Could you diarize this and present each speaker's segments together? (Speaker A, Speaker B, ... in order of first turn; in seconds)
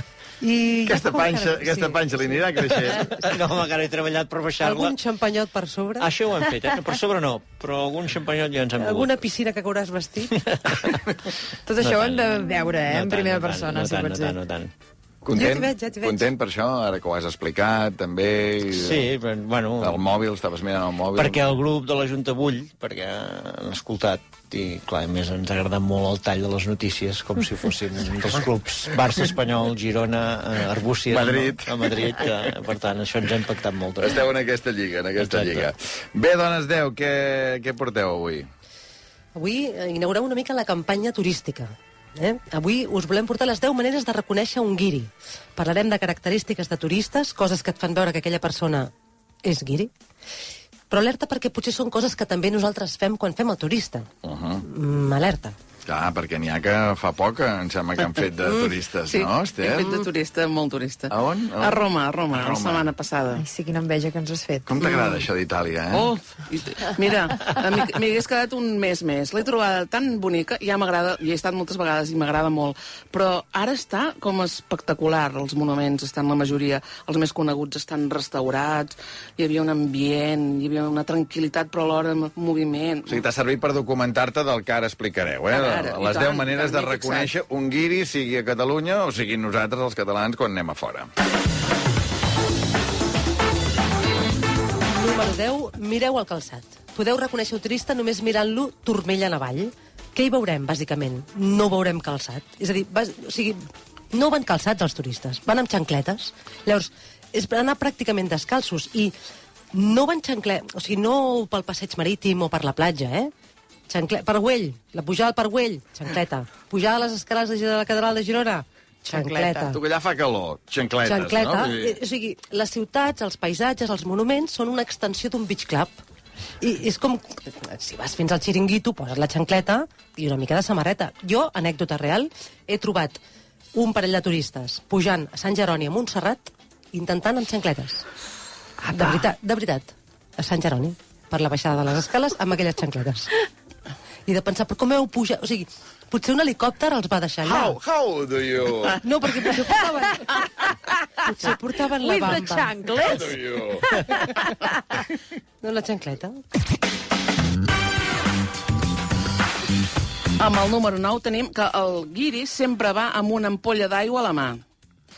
Speaker A: 0.4-2.5, 4.6-6.1, 8.8-10.4, 15.3-16.3, 39.4-48.9, 49.4-49.9, 50.9-54.1, 54.6-55.5, 94.9-103.6, 104.1-109.2, 109.7-113.3, 113.9-119.8, 121.0-126.0, 126.6-133.2, 133.8-138.1, 138.9-143.3, 144.3-147.8, 149.0-150.4, 151.2-152.8, 155.6-156.4
Speaker B: 0.9-3.1, 15.2-19.1, 19.8-21.5, 31.1-32.4, 34.0-38.5, 54.2-54.6, 55.9-60.1, 61.1-61.8, 62.3-62.9, 64.7-66.1, 83.1-91.1, 119.7-122.0, 147.4-149.0, 152.9-154.2
Speaker C: 2.7-5.0, 6.0-9.3, 10.3-14.7, 18.7-20.0, 21.1-34.2, 35.2-35.7
Speaker D: 11.7-14.4, 63.4-64.8, 119.1-119.7, 152.0-154.7
Speaker E: 59.1-63.4, 65.9-83.2, 85.5-87.3, 160.4-164.6